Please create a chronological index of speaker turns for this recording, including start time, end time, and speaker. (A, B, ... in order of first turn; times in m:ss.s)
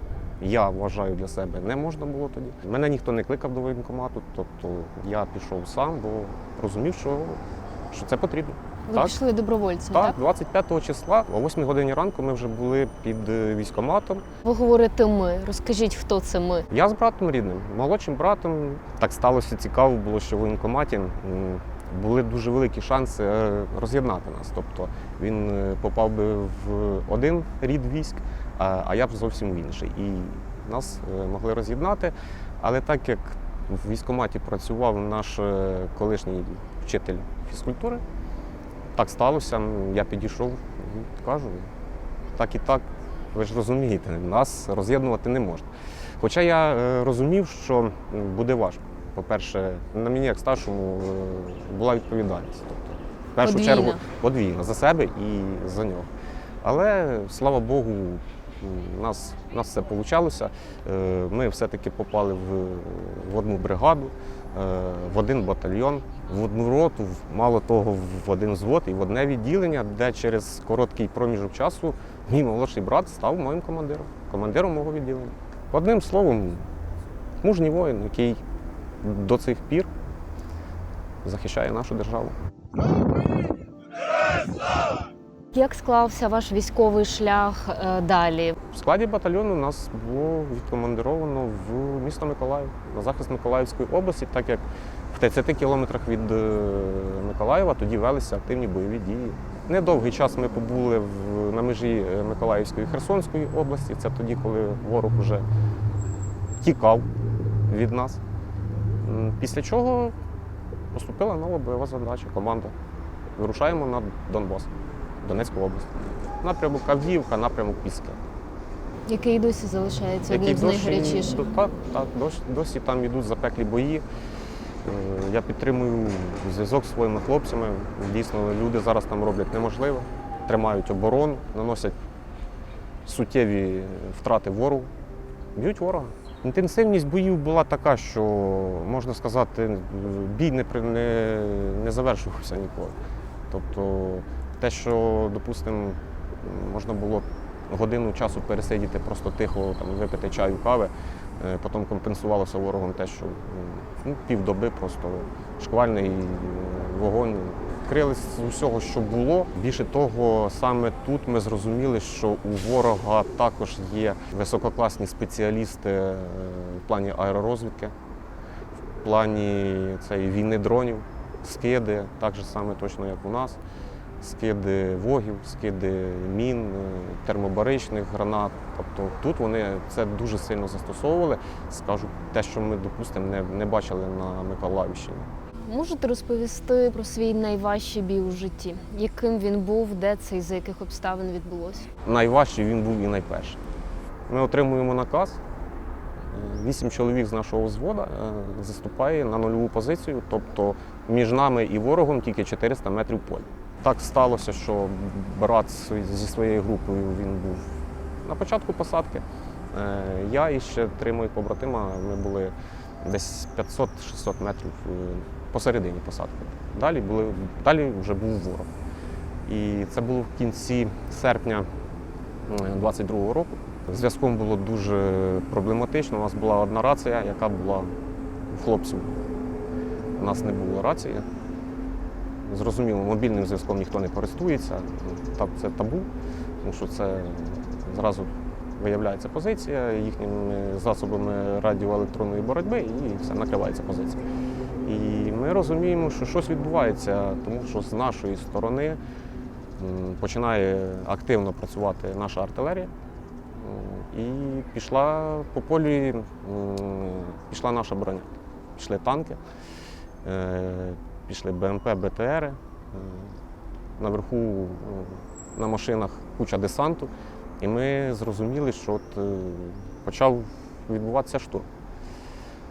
0:00.4-0:07.4 A
0:07.9-0:09.2 A
0:08.9-0:10.2 B
0:09.9-0:14.2 A
0:14.4-0:16.7 B
0:16.7-0:38.0 A
0:38.9-0:41.7 A
0:42.4-0:45.7 A
0:46.2-0:56.1 A
0:53.4-0:54.0 B
0:56.6-1:16.6 A
1:17.4-1:18.4 A
1:19.0-1:19.9 A
1:21.2-1:22.3 A
1:25.5-1:28.6 B
1:28.7-1:45.4 A
1:46.6-1:47.1 A
1:47.7-1:48.2 A
1:49.0-1:50.1 A
1:50.9-1:52.7 A
1:53.4-1:54.7 A
1:55.2-1:58.2 A
1:59.1-2:01.4 B
2:00.3-2:04.0 A
2:04.8-2:11.9 A
2:13.0-2:14.9 A
2:15.5-2:23.0 A
2:23.5-2:47.9 A
2:49.0-2:53.6 A
2:54.2-3:05.3 A
3:05.7-3:11.9 B
3:12.0-3:13.6 A
3:14.3-3:15.4 A
3:16.3-3:27.6 A
3:28.2-3:38.7 A
3:39.4-3:41.6 A
3:42.5-3:47.9 A
3:48.5-3:49.2 A
3:50.2-3:51.2 A
3:52.5-3:56.1 A
3:56.6-4:04.2 A
4:04.8-4:09.0 A
4:09.8-4:12.9 A
4:13.5-4:19.4 A
4:20.2-4:23.3 A
4:24.0-4:31.7 A